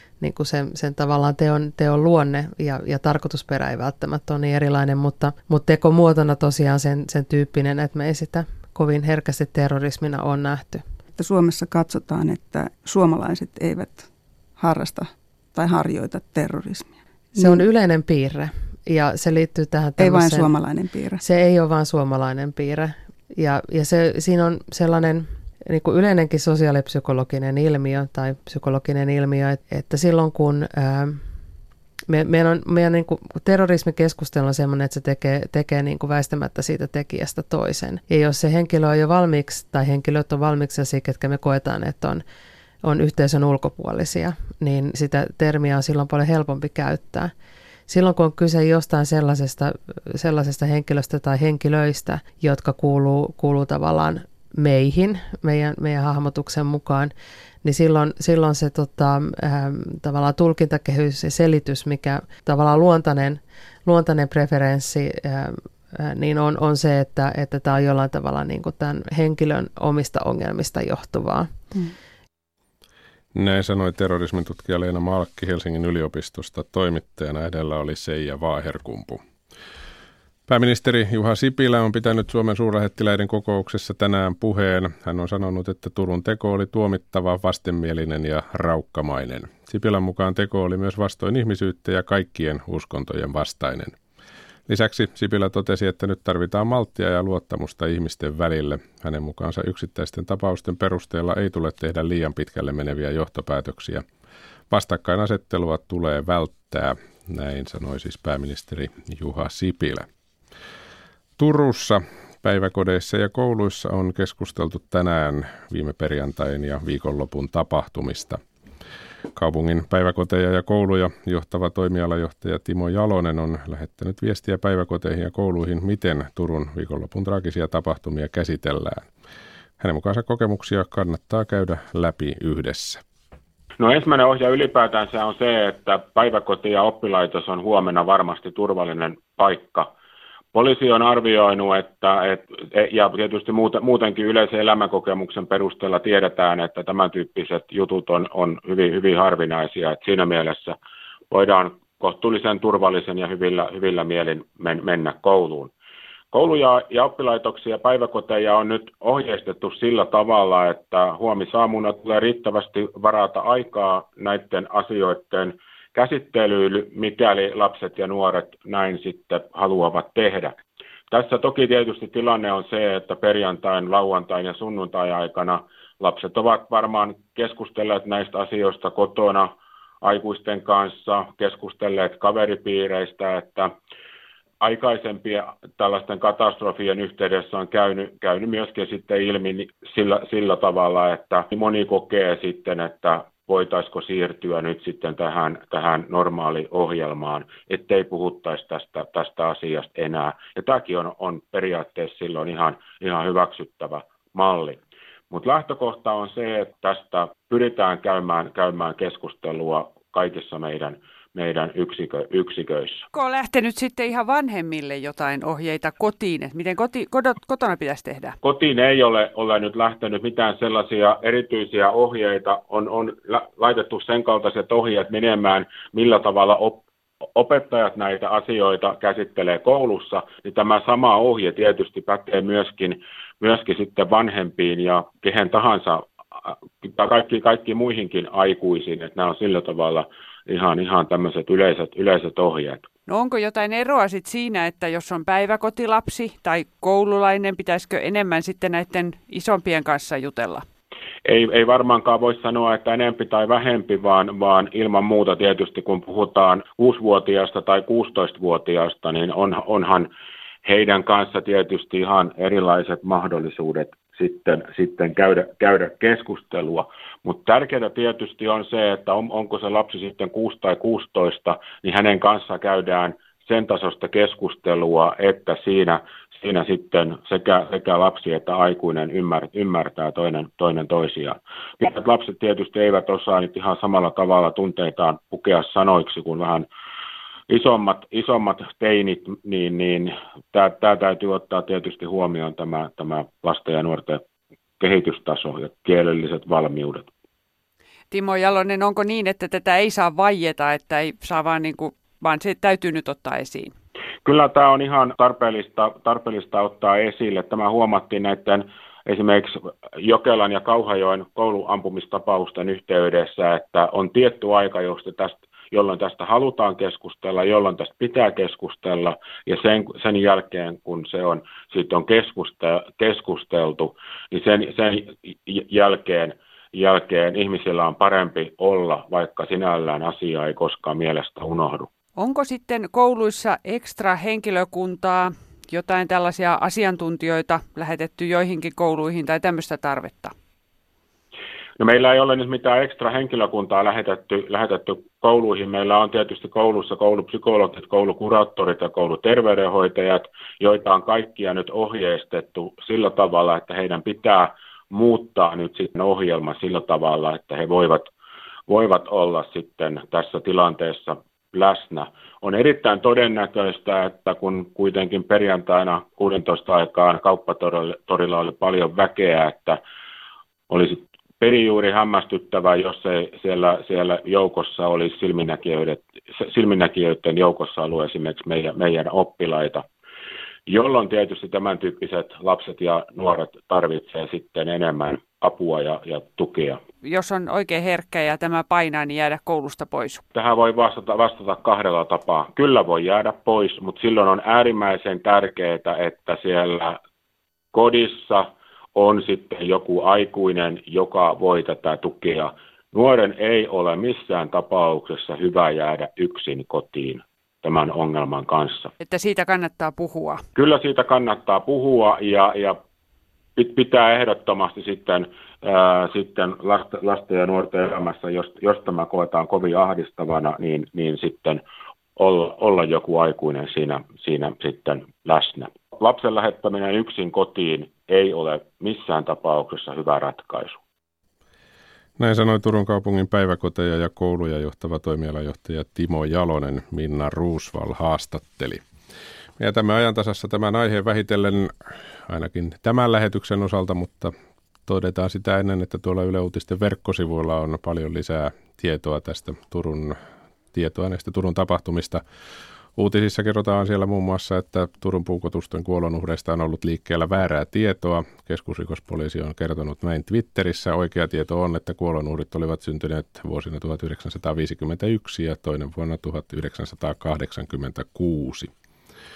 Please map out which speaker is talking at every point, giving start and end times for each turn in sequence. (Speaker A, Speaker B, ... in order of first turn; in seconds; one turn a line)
Speaker A: 0.2-10.8
Speaker B: 11.2-17.6
Speaker A: 17.4-20.5
Speaker B: 20.0-21.2
Speaker A: 21.2-31.2
Speaker A: 32.1-42.2
Speaker A: 42.8-47.3
Speaker A: 47.9-57.1
Speaker A: 57.6-71.5
Speaker C: 73.3-79.2
Speaker C: 80.5-94.0
Speaker C: 94.7-104.0
Speaker C: 104.7-110.1
Speaker C: 111.4-118.4
Speaker C: 119.4-129.1
Speaker C: 129.8-133.0
Speaker D: 133.8-139.9
Speaker D: 140.5-150.8
Speaker D: 151.3-155.7
Speaker D: 156.3-170.5
Speaker D: 171.1-179.5
Speaker D: 180.0-183.7
Speaker D: 184.6-204.8
Speaker D: 205.3-213.1
Speaker E: 213.1-218.4
Speaker D: 218.4-226.8
Speaker D: 227.3-236.0
Speaker D: 236.8-242.8
Speaker E: 243.1-250.6
Speaker D: 251.2-260.1
Speaker D: 260.6-286.7
Speaker D: 287.5-294.2
Speaker D: 294.8-297.1
Speaker E: 298.1-303.7
Speaker D: 304.2-331.9
Speaker E: 332.2-340.3
Speaker D: 341.8-358.1
Speaker D: 358.7-369.8
Speaker D: 370.7-379.8
Speaker D: 380.7-386.8
Speaker E: 387.0-390.2
Speaker D: 390.3-397.0
Speaker D: 397.7-408.9
Speaker E: 409.0-410.4
Speaker D: 410.6-412.8
Speaker D: 413.6-421.6
Speaker D: 422.2-430.8
Speaker C: 432.2-438.8
Speaker C: 439.6-441.7
Speaker C: 442.3-444.3
Speaker C: 444.9-450.2
Speaker C: 450.7-452.2
Speaker C: 453.0-468.7